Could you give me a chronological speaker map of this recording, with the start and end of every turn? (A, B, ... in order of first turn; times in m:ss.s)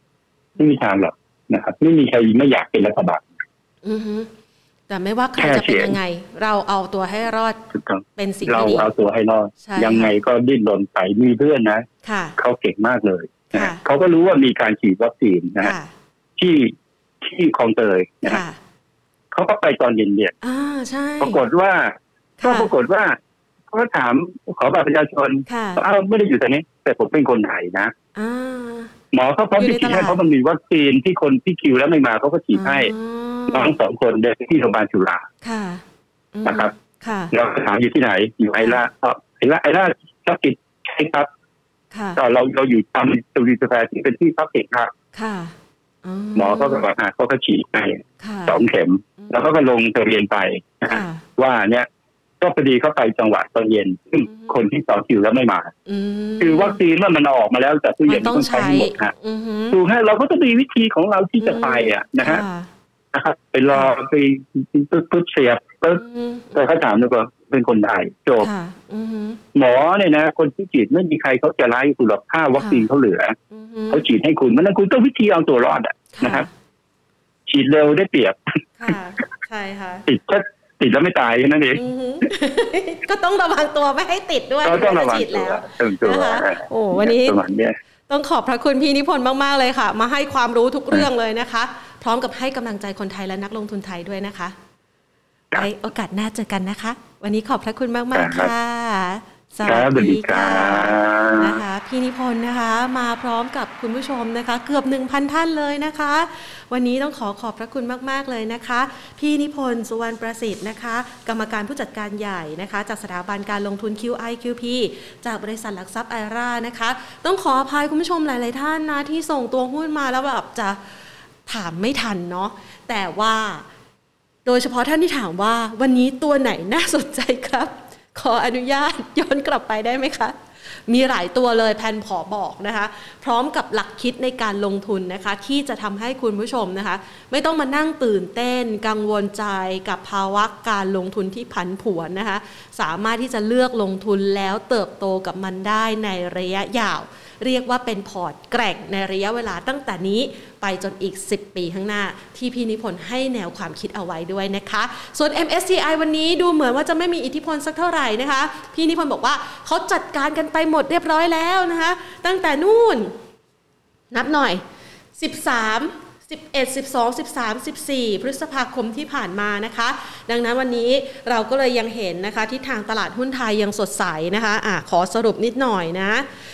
0:00.6-0:03.2 A
0:03.8-0:04.3 B
0:04.9-0:07.6 B
0:05.4-0:06.0 A
0:07.7-0:11.8 A
0:08.2-0:08.9 B
0:09.6-0:10.1 B
0:12.0-0:12.4 B
0:12.4-0:15.7 A
0:13.5-0:13.8 B
0:15.6-0:15.9 B
0:16.4-0:18.4 A
0:18.2-0:18.6 B
0:19.3-0:20.3 A
0:20.4-0:21.4 B
0:21.2-0:23.2 A
0:22.4-0:22.7 B
0:23.7-0:27.9 A
0:25.5-0:25.8 B
0:28.1-0:28.9 B
0:29.1-0:32.9 A
0:29.6-0:30.2 B
0:32.5-0:33.7 B
0:33.5-0:35.2 A
0:35.4-0:37.3 B
0:36.4-0:36.7 A
0:37.3-0:41.3 A
0:41.9-0:42.2 B
0:42.2-0:44.9 A
0:45.1-0:46.8 B
0:46.4-0:51.9 A
0:48.2-0:48.6 B
0:50.8-0:51.2 B
0:52.4-0:55.7 A
0:54.3-0:54.5 B
0:55.8-0:56.8 B
0:56.4-0:59.1 A
0:58.1-0:59.8 B
0:59.7-1:02.4 A
1:01.4-1:02.7 B
1:03.1-1:06.0 A
1:06.0-1:06.6 B
1:06.5-1:08.5 A
1:08.4-1:09.4 B
1:09.5-1:13.4 A
1:12.6-1:12.8 B
1:13.5-1:14.0 B
1:13.9-1:16.4 A
1:16.1-1:16.5 B
1:17.5-1:18.4 A
1:18.8-1:20.1 B
1:20.1-1:21.8 A
1:21.7-1:27.4 B
1:24.6-1:27.8 A
1:28.1-1:34.5 B
1:35.5-2:00.8 B
1:38.1-1:38.5 A
1:39.6-1:41.6 A
2:01.4-2:03.6 B
2:04.4-2:10.3 B
2:10.9-2:43.1 B
2:44.1-2:44.6 B
2:45.2-2:56.2 B